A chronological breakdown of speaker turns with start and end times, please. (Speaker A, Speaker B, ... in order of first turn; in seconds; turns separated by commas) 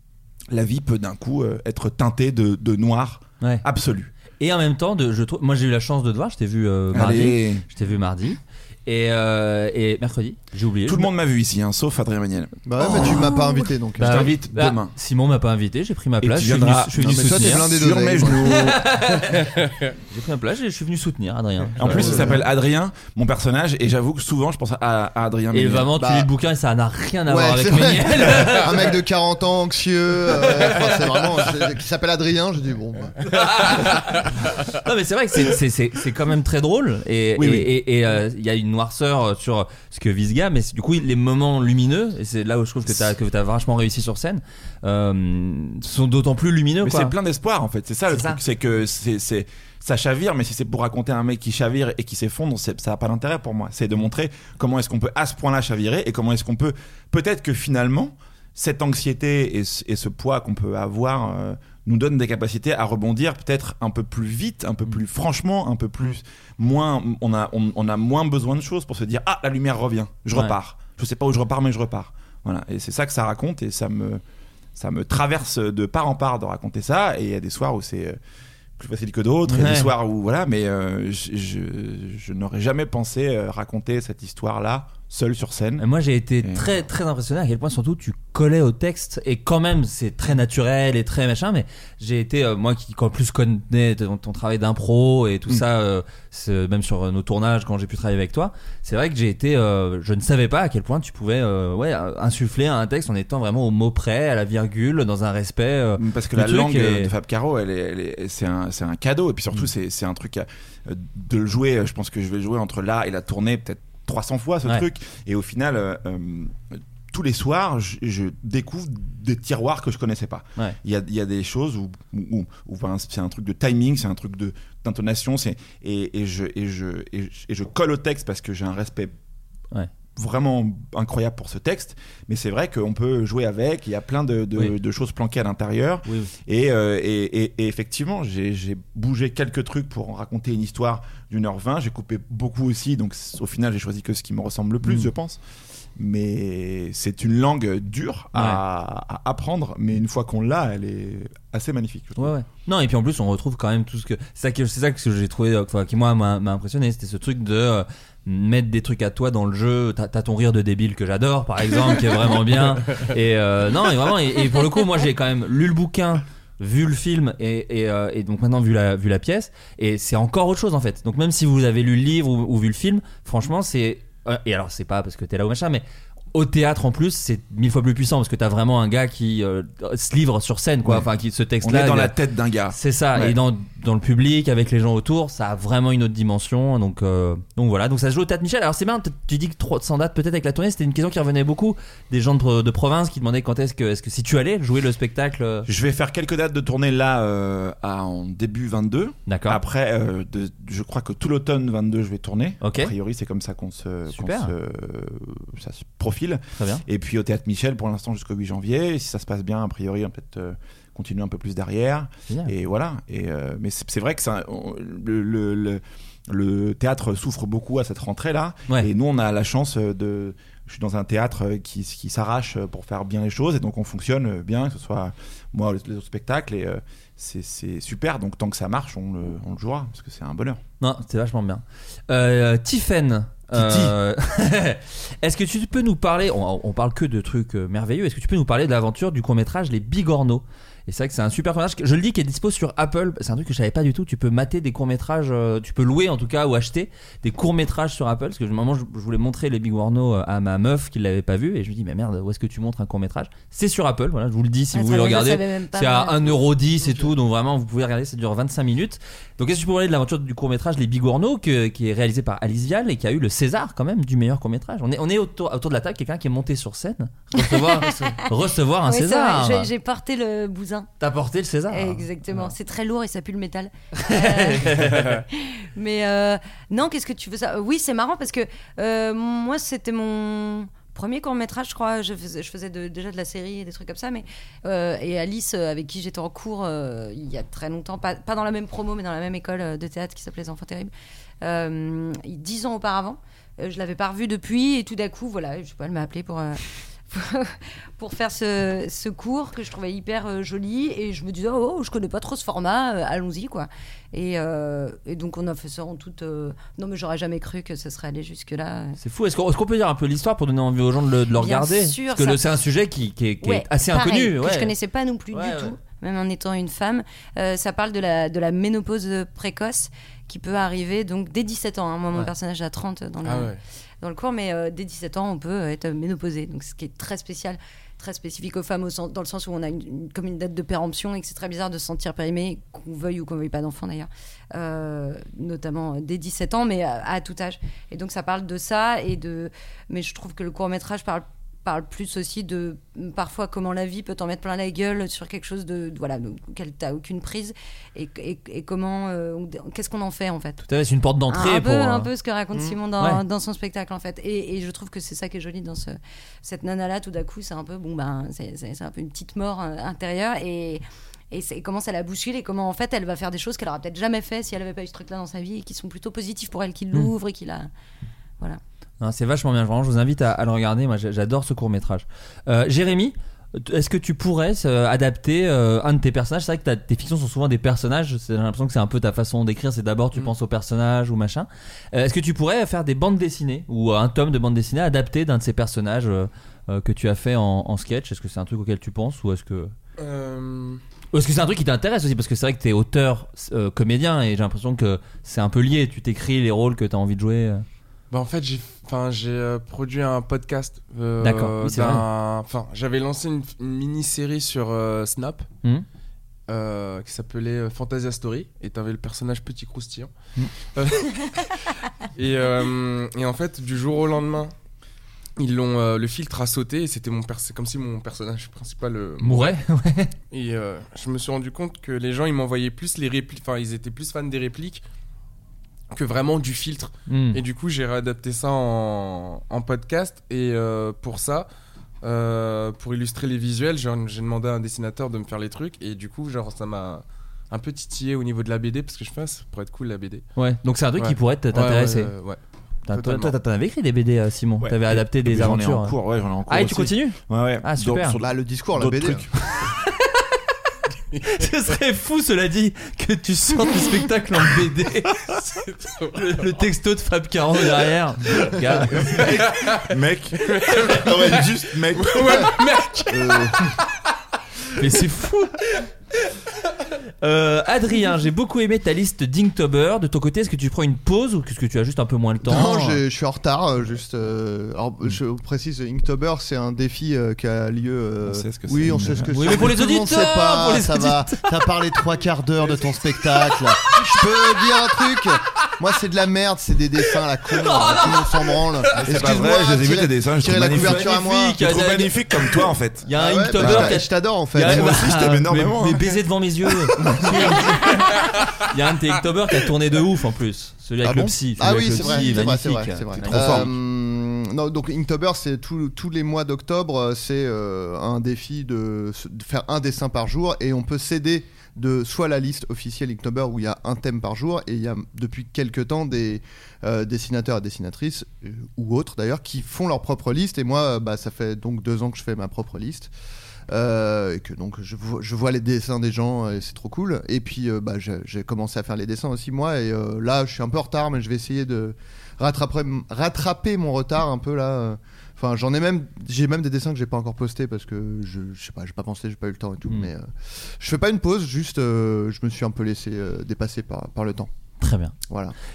Speaker A: 0.5-4.1, Speaker B: 4.4-11.1, Speaker A: 6.9-7.7, Speaker A: 10.8-13.2, Speaker C: 12.7-14.3, Speaker D: 12.9-13.7, Speaker A: 14.0-14.9, Speaker B: 14.0-17.7, Speaker A: 16.2-18.9, Speaker C: 17.0-18.8, Speaker B: 18.4-19.4, Speaker E: 19.4-19.9, Speaker B: 20.1-22.3, Speaker A: 21.8-25.9, Speaker C: 21.9-22.4, Speaker B: 25.5-28.9, Speaker C: 26.0-26.3, Speaker C: 27.3-33.2, Speaker B: 33.3-47.1, Speaker A: 37.4-37.7, Speaker A: 46.8-74.2, Speaker B: 48.1-48.4, Speaker B: 70.3-70.6, Speaker A: 74.8-78.2, Speaker A: 78.8-85.9, Speaker B: 79.5-79.9, Speaker B: 85.8-107.1, Speaker A: 86.4-86.8, Speaker A: 106.0-129.1, Speaker A: 130.2-145.4, Speaker B: 136.1-136.3, Speaker B: 144.8-145.1, Speaker A: 146.0-152.4, Speaker B: 148.3-148.6, Speaker B: 152.2-182.2, Speaker A: 181.6-183.4, Speaker B: 182.7-195.7, Speaker A: 195.7-230.6, Speaker B: 199.3-199.6, Speaker B: 202.6-202.9, Speaker B: 204.1-204.5, Speaker B: 206.6-206.8, Speaker B: 230.8-269.7, Speaker A: 233.5-233.9, Speaker D: 254.7-256.5, Speaker D: 267.4-270.9, Speaker B: 271.0-272.5, Speaker D: 271.7-290.9, Speaker B: 274.0-275.2, Speaker D: 291.4-309.0, Speaker B: 309.0-314.7, Speaker D: 311.4-312.5, Speaker D: 313.4-350.6, Speaker B: 315.3-315.8, Speaker E: 323.2-323.6, Speaker B: 350.6-352.1, Speaker D: 351.3-367.7, Speaker B: 369.0-389.7, Speaker E: 390.0-390.8, Speaker B: 391.1-397.6, Speaker E: 398.1-405.5, Speaker B: 401.2-402.0, Speaker E: 406.5-410.1, Speaker E: 410.6-411.6, Speaker E: 412.1-414.5, Speaker E: 415.4-419.6, Speaker B: 419.2-420.1, Speaker E: 420.3-424.8, Speaker E: 425.9-431.5, Speaker B: 427.1-427.4, Speaker E: 432.0-440.2, Speaker B: 440.4-442.1, Speaker E: 441.0-443.4, Speaker B: 442.9-446.0, Speaker A: 444.6-449.3, Speaker B: 446.5-448.2, Speaker C: 448.2-449.2, Speaker B: 449.5-450.2, Speaker E: 451.1-451.4, Speaker B: 451.3-455.2, Speaker E: 455.3-456.6, Speaker B: 456.1-459.3, Speaker A: 459.1-462.5, Speaker E: 459.2-459.8, Speaker E: 460.4-463.8, Speaker C: 463.1-463.7, Speaker B: 464.8-465.6, Speaker B: 467.2-473.0, Speaker C: 472.4-491.6, Speaker A: 478.2-479.7, Speaker B: 479.3-481.8, Speaker B: 487.6-488.6, Speaker A: 488.9-494.0, Speaker B: 490.7-503.7, Speaker C: 493.1-495.0, Speaker A: 494.6-496.2, Speaker A: 497.0-497.3, Speaker C: 497.0-497.3, Speaker C: 501.0-523.1, Speaker A: 503.2-503.7, Speaker C: 523.7-544.5, Speaker B: 544.8-545.1, Speaker C: 545.3-545.5